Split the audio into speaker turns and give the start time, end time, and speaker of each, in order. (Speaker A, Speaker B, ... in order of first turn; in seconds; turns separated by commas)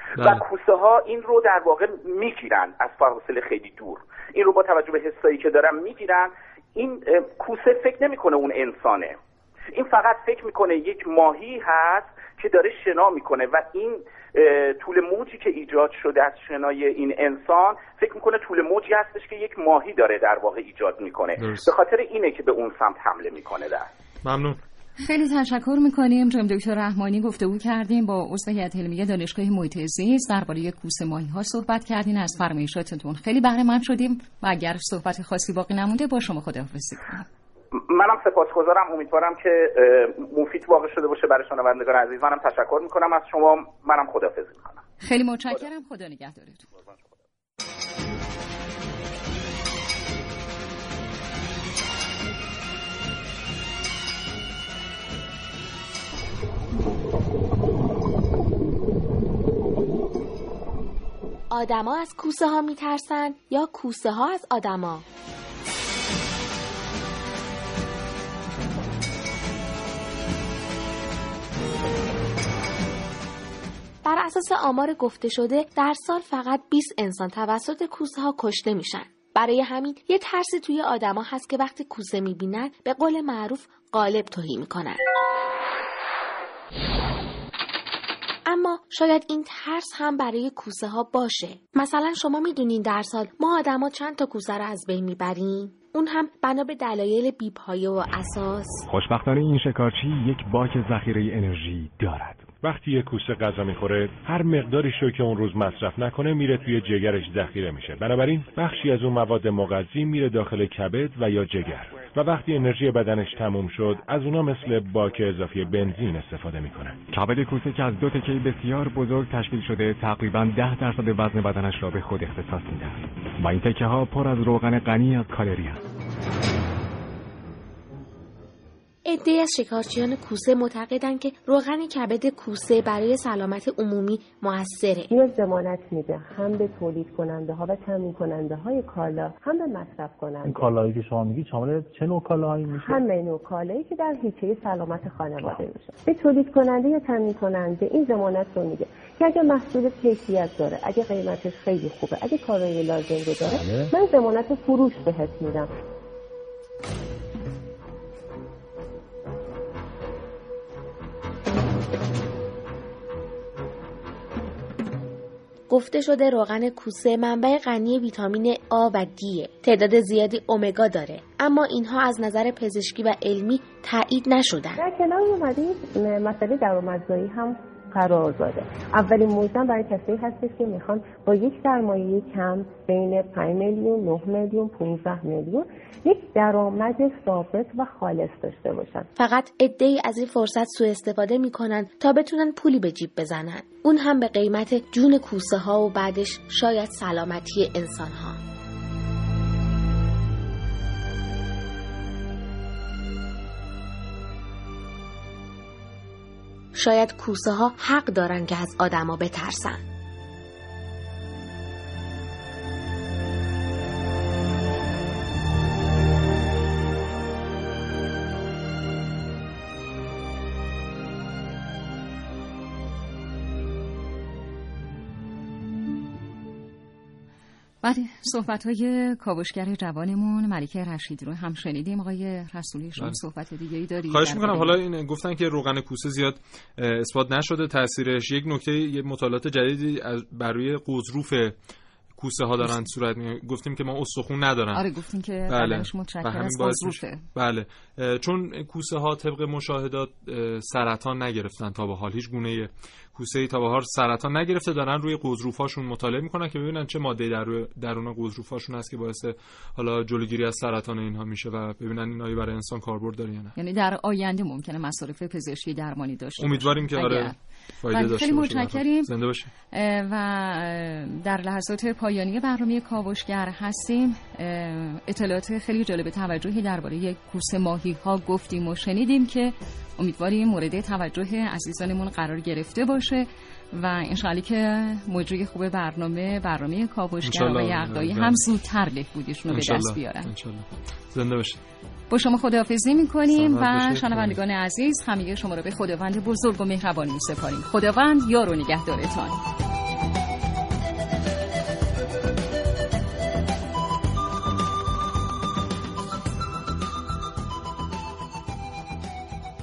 Speaker A: 0.1-0.4, Speaker B: 0.2-9.2, Speaker B: 9.7-23.9, Speaker A: 21.4-21.7, Speaker A: 24.2-24.6, Speaker C: 25.0-37.2, Speaker B: 37.7-44.8, Speaker C: 45.0-46.6, Speaker D: 61.5-65.0, Speaker D: 74.0-85.0, Speaker D: 88.5-98.9, Speaker E: 98.9-102.5, Speaker F: 102.6-117.0, Speaker E: 117.1-125.8, Speaker D: 129.1-135.1, Speaker G: 135.1-140.7, Speaker H: 140.4-143.0, Speaker G: 142.7-155.7, Speaker D: 165.7-174.8, Speaker G: 174.8-189.1, Speaker D: 189.2-198.4, Speaker D: 206.7-209.8, Speaker C: 227.8-234.8, Speaker A: 234.1-241.6, Speaker A: 242.2-244.8, Speaker C: 244.7-247.2, Speaker A: 245.5-263.5, Speaker C: 263.5-267.3, Speaker A: 266.4-269.5, Speaker C: 267.9-269.1, Speaker C: 269.7-290.3, Speaker A: 287.2-288.4, Speaker A: 289.5-291.6, Speaker C: 292.1-299.4, Speaker A: 293.3-294.4